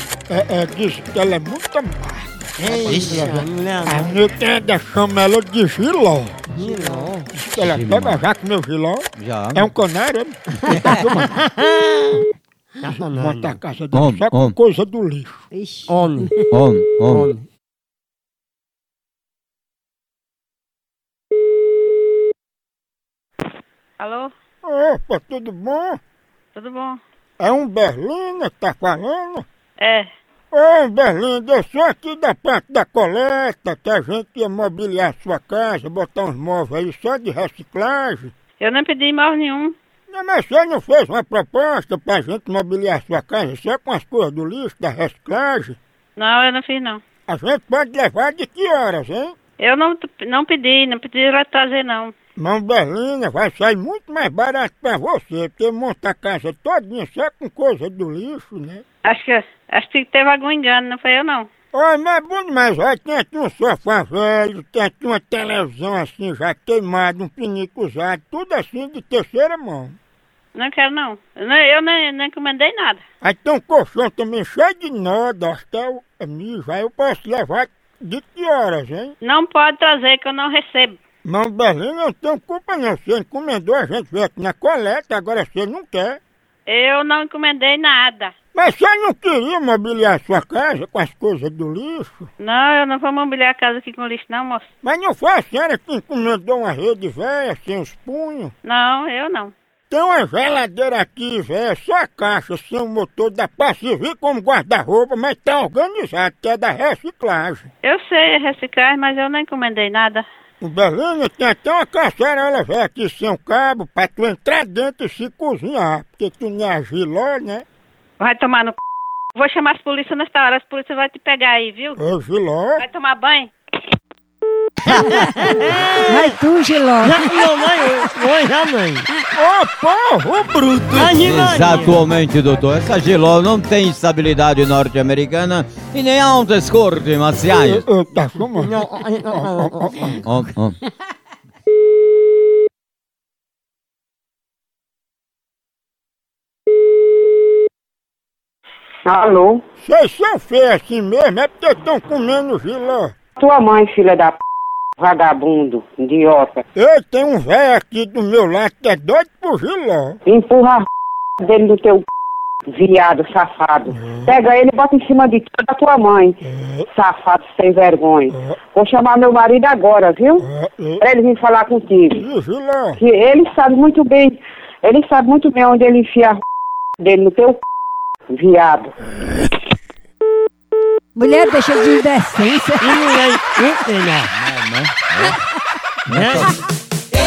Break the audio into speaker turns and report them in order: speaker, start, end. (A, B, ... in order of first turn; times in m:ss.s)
0:00.3-0:06.4 A
0:02.6-0:04.1 B
0:02.9-0:03.2 C
0:06.5-0:07.3 B
0:07.3-0:11.3 A
0:07.6-0:08.2 C
0:09.2-0:09.7 C
0:10.7-0:12.2 B
0:12.8-0:13.5 B
0:12.9-0:15.4 A
0:13.9-0:14.6 C
0:15.5-0:16.5 D
0:15.9-0:16.3 B
0:16.5-0:17.3 C
0:17.1-0:17.4 B
0:24.0-0:24.3 E
0:24.6-0:26.0 A
0:26.6-0:27.0 E
0:27.4-0:29.4 A
0:29.8-0:30.1 E
0:30.5-0:38.3 A
0:38.6-0:39.8 E
0:40.1-0:45.8 A
0:46.2-0:47.0 E
0:47.3-0:49.3 A
0:49.6-0:52.1 E
0:52.4-0:58.8 A
0:59.0-1:01.5 E
1:01.7-1:10.0 A
1:10.6-1:13.0 E
1:13.2-1:19.2 A
1:19.2-1:21.0 E
1:21.2-1:26.2 A
1:26.7-1:28.3 E
1:28.5-1:32.3 A
1:32.4-1:34.7 E
1:34.8-1:38.5 A
1:38.6-1:39.5 E
1:39.9-1:47.7 A
1:47.8-1:50.2 E
1:50.6-1:57.6 A
1:58.2-1:58.8 E
1:59.4-2:02.0 E
2:02.0-2:02.8 A
2:02.8-2:03.5 E
2:04.8-2:07.5 D
2:04.9-2:06.4 B
2:07.0-2:09.1 B
2:09.3-2:10.8 A
2:10.8-2:17.9 C
2:11.0-2:12.0 B
2:17.7-2:18.8 A
2:18.6-2:20.2 B
2:19.3-2:20.2 A
2:20.2-2:20.8 C
2:29.1-2:29.6 F
2:29.8-2:33.1 A
2:33.4-2:34.4 F
2:35.0-2:36.6 F
2:36.8-2:40.2 A
2:40.3-2:40.8 F
2:41.4-2:42.0 F
2:42.7-2:46.4 F
2:46.4-2:46.9 A
2:46.9-2:50.5 F
2:48.3-2:48.6 A
2:50.4-2:51.0 A
2:51.0-2:52.2 F
2:52.2-2:53.0 A
2:53.0-2:56.4 F
2:57.0-2:57.6 F
2:58.3-2:58.9 F
3:01.2-3:03.1 D
3:02.8-3:04.3 B
3:04.3-3:05.4 C
3:06.1-3:06.6 C
3:06.1-3:06.6 B